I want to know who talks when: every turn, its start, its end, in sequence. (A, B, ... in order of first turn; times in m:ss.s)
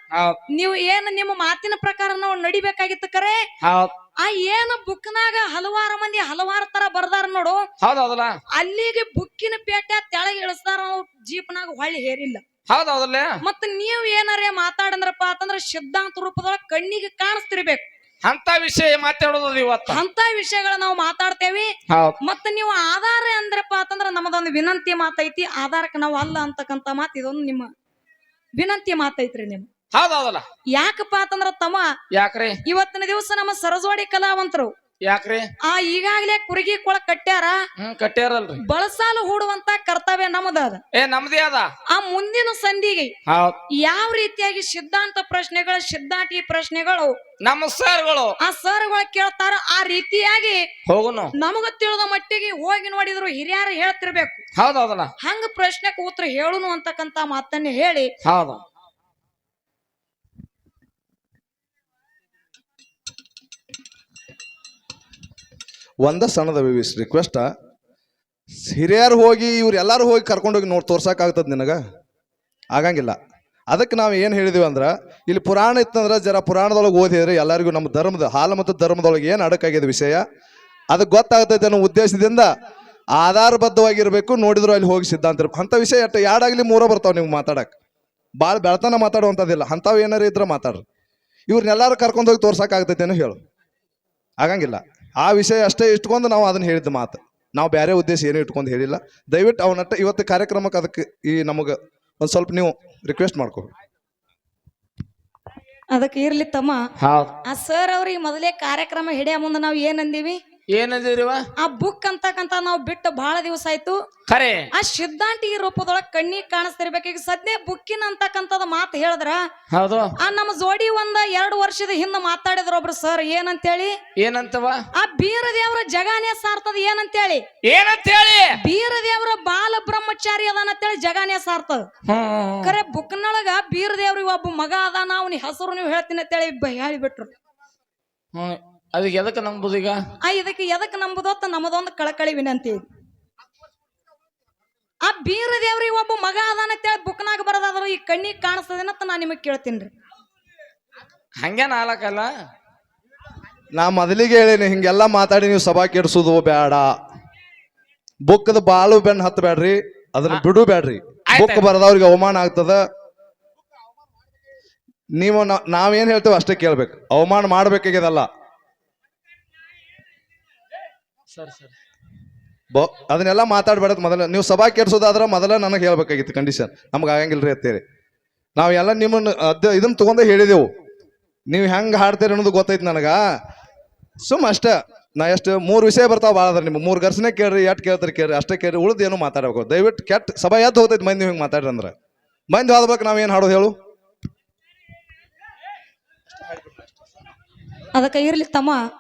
0:00.1-0:00.4 A
0:00.5-0:03.4 B
0:03.6-0:03.9 A
0:04.2-0:07.6 B
0:07.8-0:08.4 A
0:08.6-0:12.4 B
0:12.7-0:13.4 A
0:13.4-0:17.9 B
0:18.2-0:20.0 A
0:19.9-0:21.7 B
0:21.9-0:22.2 A
0:22.2-0:27.7 B
0:28.6-0:29.7 B
0:29.9-0:30.4 A
0:30.7-0:31.9 B
0:32.1-0:32.6 A
0:32.6-0:34.7 B
0:35.0-0:35.5 A
0:35.7-0:37.6 B
0:37.8-0:38.6 A
0:38.6-0:40.8 B
0:40.9-0:41.7 A
0:41.9-0:43.1 B
0:43.3-0:43.6 A
0:43.8-0:47.2 B
0:47.4-0:48.4 A
0:48.4-0:50.6 B
0:50.9-0:51.3 A
0:51.4-0:54.4 B
0:54.6-0:55.1 A
0:55.2-0:58.1 B
0:58.2-0:58.6 A
1:06.0-1:07.5 C
1:08.6-1:11.8 C
1:12.7-1:13.2 C
1:13.7-1:20.2 C
1:20.9-1:22.5 C
1:23.1-1:27.7 C
1:28.4-1:30.8 C
1:31.5-1:33.4 C
1:34.4-1:43.7 C
1:45.9-1:46.8 B
1:47.0-1:47.4 A
1:47.4-1:50.4 B
1:50.7-1:51.4 A
1:51.6-1:54.0 B
1:54.3-1:54.7 A
1:54.7-1:59.4 B
1:59.7-2:00.1 A
2:00.2-2:03.9 B
2:04.2-2:04.8 A
2:05.0-2:07.4 B
2:07.6-2:08.6 A
2:08.6-2:11.9 B
2:12.0-2:12.8 A
2:12.6-2:17.3 B
2:18.3-2:20.0 A
2:20.2-2:22.8 B
2:25.0-2:29.9 B
2:31.4-2:32.3 A
2:33.7-2:36.9 C
2:38.3-2:42.8 C
2:41.3-2:41.7 A
2:45.2-2:48.3 C
2:51.3-2:51.7 A
2:52.7-2:57.8 C
2:58.6-3:00.7 C
3:01.5-3:03.2 C
3:04.2-3:11.9 C
3:12.5-3:13.7 C
3:17.9-3:18.8 B